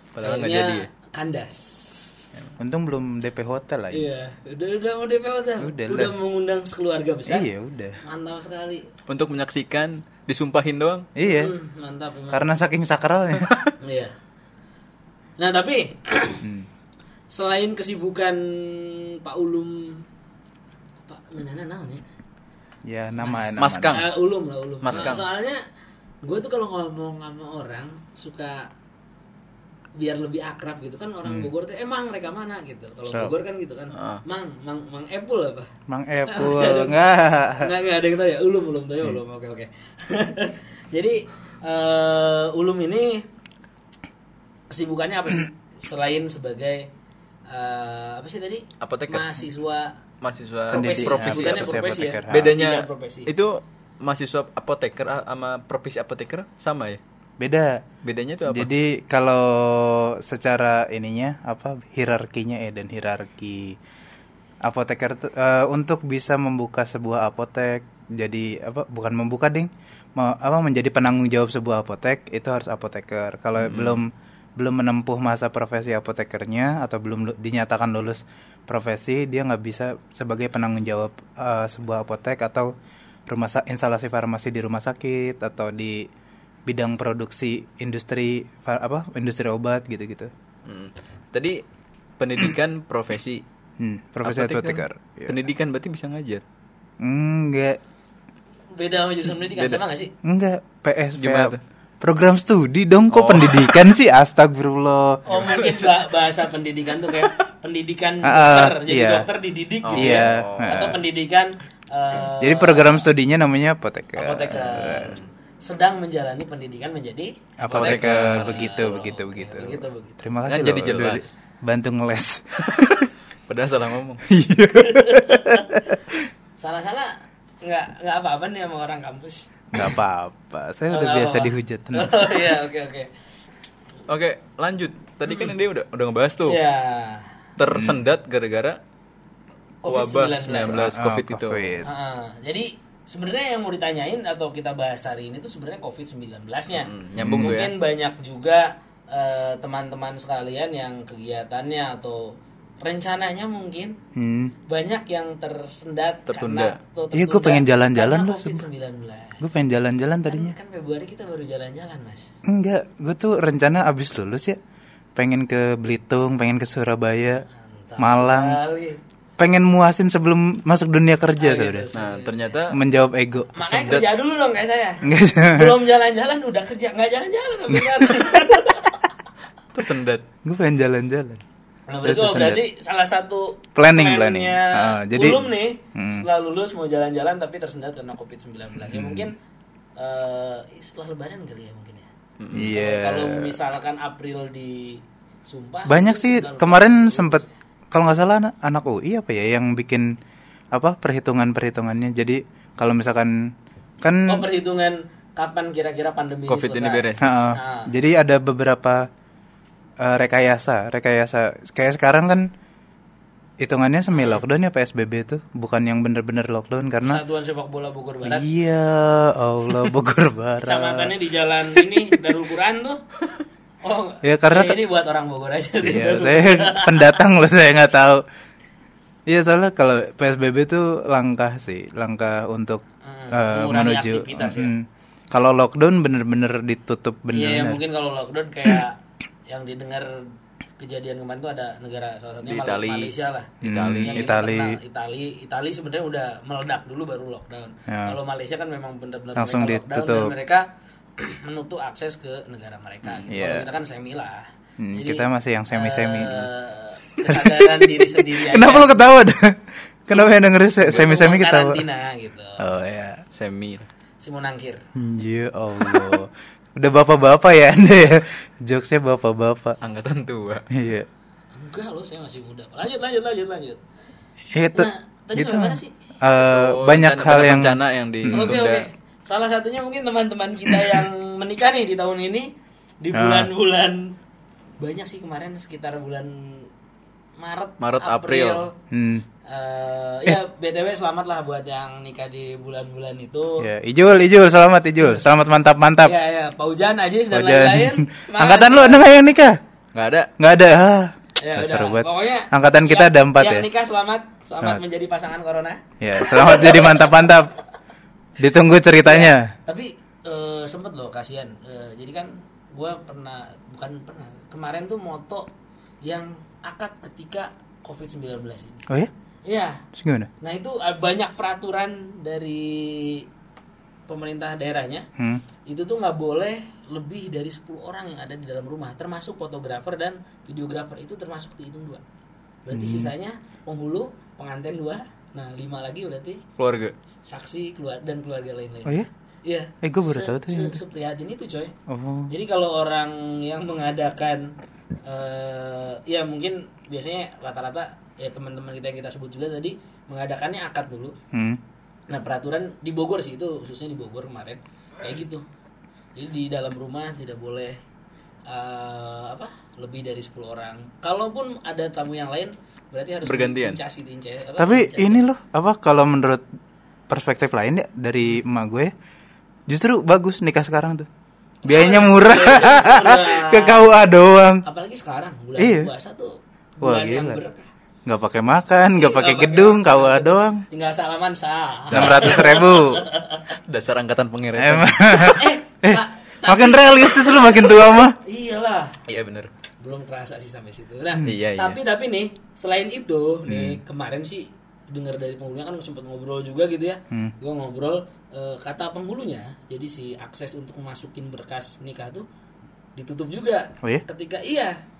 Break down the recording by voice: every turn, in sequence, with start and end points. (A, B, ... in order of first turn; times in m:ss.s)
0:00.1-0:00.9 A
0:00.2-0:02.3 B
0:02.4-0:04.0 C
0:03.9-0:07.5 B
0:05.6-0:06.2 C
0:07.2-0:08.0 C
0:08.0-0:08.9 B
0:09.1-0:11.1 A
0:11.2-0:11.5 C
0:11.2-0:12.5 B
0:12.3-0:13.5 C
0:13.8-0:14.1 B
0:15.4-0:16.4 B
0:17.3-0:20.0 B
0:21.0-0:22.0 B
0:22.8-0:24.0 C
0:23.2-0:25.6 B
0:23.6-0:24.1 A
0:24.8-0:25.2 A
0:26.2-0:28.7 B
0:30.0-0:35.7 B
0:31.2-0:31.5 C
0:33.1-0:33.3 C
0:33.9-0:34.2 A
0:35.9-0:37.7 C
0:36.3-0:37.0 B
0:37.6-0:43.2 B
0:44.7-0:46.9 B
0:47.5-0:50.0 B
0:48.8-0:49.4 A
0:50.2-0:57.0 A
0:50.7-0:53.3 B
0:50.7-0:52.6 C
0:57.4-0:57.8 C
0:58.0-0:58.7 A
0:58.5-1:03.8 C
1:04.6-1:22.7 C
1:13.6-1:14.0 A
1:23.3-1:26.1 C
1:26.6-1:30.3 C
1:30.6-1:31.6 A
1:32.2-1:33.4 A
1:33.8-1:35.4 C
1:34.2-1:36.4 A
1:37.0-1:37.8 C
1:38.8-1:40.1 B
1:39.5-1:39.8 A
1:40.2-1:45.2 C
1:41.2-1:41.6 A
1:43.1-1:43.6 A
1:45.2-1:53.1 B
1:45.3-1:45.9 A
1:48.2-1:49.2 C
1:49.8-1:50.8 A
1:50.0-1:51.0 C
1:52.4-1:55.1 C
1:54.2-2:00.2 B
1:57.6-2:03.1 C
1:57.7-1:58.8 A
2:00.5-2:01.2 A
2:03.5-2:04.2 A
2:04.3-2:06.2 C
2:04.8-2:05.7 B
2:06.6-2:09.9 B
2:09.7-2:12.2 C
2:10.9-2:13.1 B
2:14.1-2:16.6 A
2:16.4-2:17.3 B
2:17.6-2:18.8 A
2:17.7-2:18.0 C
2:19.8-2:20.9 B
2:19.9-2:21.7 A
2:20.7-2:21.9 C
2:21.8-2:34.0 B
2:26.7-2:27.7 A
2:27.2-2:27.6 C
2:34.1-2:34.5 C
2:34.7-2:39.4 B
2:36.3-2:36.8 A
2:37.1-2:38.6 C
2:39.4-2:40.5 C
2:40.3-2:42.3 B
2:42.4-2:44.6 C
2:45.2-2:47.4 C
2:47.5-2:49.0 B
2:48.0-2:48.6 C
2:49.4-2:51.9 C
2:51.4-2:52.6 B
2:51.9-2:52.8 A
2:52.7-2:54.0 C
2:53.5-2:59.0 B
2:53.8-2:54.1 A
2:55.0-2:55.8 C
2:57.7-2:58.3 C
2:59.7-3:00.2 A
3:00.4-3:01.4 C
3:01.9-3:09.3 B
3:02.0-3:02.6 C
3:03.8-3:06.2 C
3:08.8-3:09.3 C
3:10.0-3:17.5 B
3:12.4-3:12.7 A
3:12.5-3:13.6 C
3:15.9-3:20.1 C
3:20.7-3:24.4 C
3:24.3-3:27.9 B
3:26.5-3:27.2 A
3:27.2-3:29.1 C
3:30.0-3:32.5 C
3:33.6-3:37.2 C
3:34.1-3:34.4 B
3:37.0-3:38.5 B
3:38.2-3:41.1 C
3:40.6-3:43.0 B
3:41.8-3:42.0 C
3:43.8-3:47.2 B
3:44.2-3:44.8 C
3:45.7-3:48.2 C
3:49.2-3:57.8 C
3:53.0-3:54.7 B
3:57.3-4:19.0 B
4:02.4-4:04.3 A
4:03.6-4:04.8 C
4:07.9-4:08.2 C
4:09.4-4:10.3 C
4:13.3-4:13.7 C
4:14.8-4:16.5 C
4:17.3-4:21.8 C
4:20.8-4:22.6 B
4:22.6-4:23.2 C
4:23.3-4:23.9 A
4:24.2-4:24.8 B
4:24.9-4:29.8 C
4:29.8-4:30.6 A
4:30.7-4:31.1 C
4:31.5-4:33.8 B
4:34.5-4:38.6 C
4:34.7-4:35.9 B
4:36.4-4:38.8 A
4:38.3-4:44.1 B
4:40.7-4:41.0 C
4:43.1-4:43.5 C
4:44.8-4:46.7 B
4:47.4-4:48.8 B
4:47.8-4:48.6 A
4:48.9-4:49.2 C
4:49.4-4:53.6 B
4:53.6-4:56.1 C
4:56.0-4:59.0 B
4:57.3-4:59.6 C
4:59.9-5:00.3 A
5:00.4-5:03.7 C
5:01.4-5:07.4 B
5:06.0-5:07.5 C
5:08.4-5:09.5 C
5:09.0-5:15.5 B
5:16.0-5:18.8 B
5:19.4-5:19.8 B
5:19.9-5:20.3 C
5:20.4-5:23.2 B
5:24.1-5:25.1 B
5:25.2-5:25.4 C
5:25.6-5:32.0 B
5:32.6-5:36.4 B
5:32.7-5:33.1 C
5:36.6-5:36.9 A
5:37.2-5:41.7 B
5:39.8-5:40.8 C
5:41.9-5:42.3 C
5:42.3-5:44.5 B
5:45.0-5:51.2 B
5:51.3-5:51.6 C
5:52.1-5:55.4 B
5:56.2-5:57.8 B
5:58.5-6:05.2 B
6:03.2-6:03.8 A
6:04.6-6:06.4 C
6:07.1-6:08.9 C
6:09.7-6:11.1 C
6:11.6-6:13.8 B
6:11.6-6:14.6 C
6:14.6-6:17.7 B
6:15.6-6:15.9 C
6:16.8-6:17.4 C
6:18.0-6:20.6 C
6:19.0-6:23.6 B
6:21.9-6:23.0 C
6:21.9-6:22.5 A
6:23.6-6:25.0 A
6:24.6-6:28.2 C
6:25.1-6:29.0 B
6:29.1-6:29.5 A
6:29.8-6:42.2 B
6:31.2-6:31.8 A
6:33.5-6:33.8 C
6:43.0-6:44.8 B